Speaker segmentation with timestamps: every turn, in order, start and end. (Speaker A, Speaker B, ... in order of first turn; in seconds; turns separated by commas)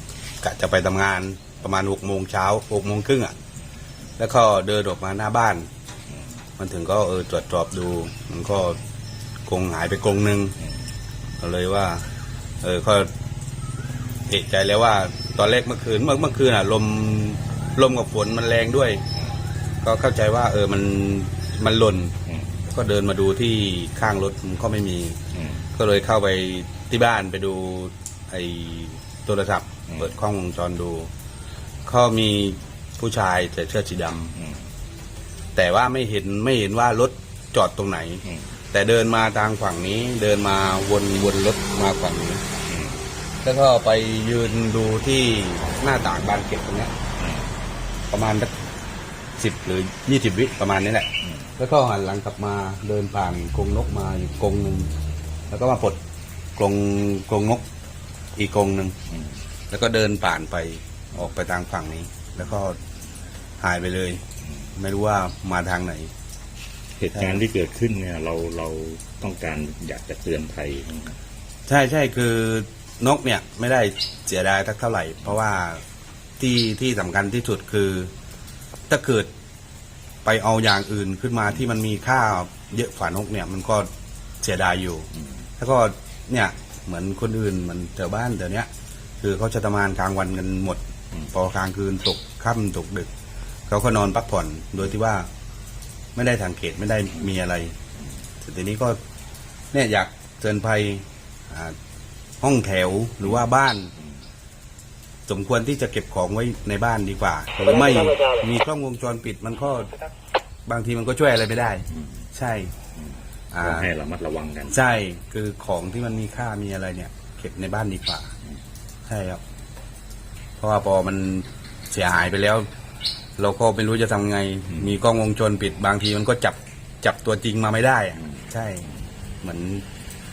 Speaker A: 0.4-3.4, Speaker A: 4.2-5.7, Speaker A: 6.6-8.8, Speaker A: 9.5-10.6, Speaker A: 11.4-12.1, Speaker A: 12.6-13.1, Speaker A: 14.3-19.0, Speaker A: 19.8-25.2, Speaker A: 25.7-31.1, Speaker A: 31.9-34.4, Speaker A: 35.5-42.4, Speaker B: 42.7-43.0, Speaker A: 43.4-46.9, Speaker B: 47.2-47.5, Speaker A: 48.1-48.5, Speaker A: 49.4-54.9, Speaker A: 55.5-56.0, Speaker A: 56.6-57.6, Speaker A: 58.4-59.0, Speaker A: 59.7-62.8, Speaker A: 63.6-64.2, Speaker A: 64.7-66.1, Speaker B: 67.0-71.2, Speaker A: 71.7-75.8, Speaker A: 76.4-78.1, Speaker A: 78.9-79.3, Speaker A: 80.2-83.9, Speaker A: 84.4-88.7, Speaker A: 89.2-93.1, Speaker A: 93.7-95.3, Speaker A: 96.1-97.7, Speaker A: 98.4-99.0, Speaker A: 99.7-101.8, Speaker A: 102.4-103.9, Speaker A: 105.3-110.0, Speaker A: 110.7-112.7, Speaker A: 113.5-113.9, Speaker B: 113.6-114.8, Speaker A: 114.7-118.3, Speaker A: 119.0-119.4, Speaker A: 120.6-122.7, Speaker A: 123.4-128.9, Speaker A: 129.4-129.8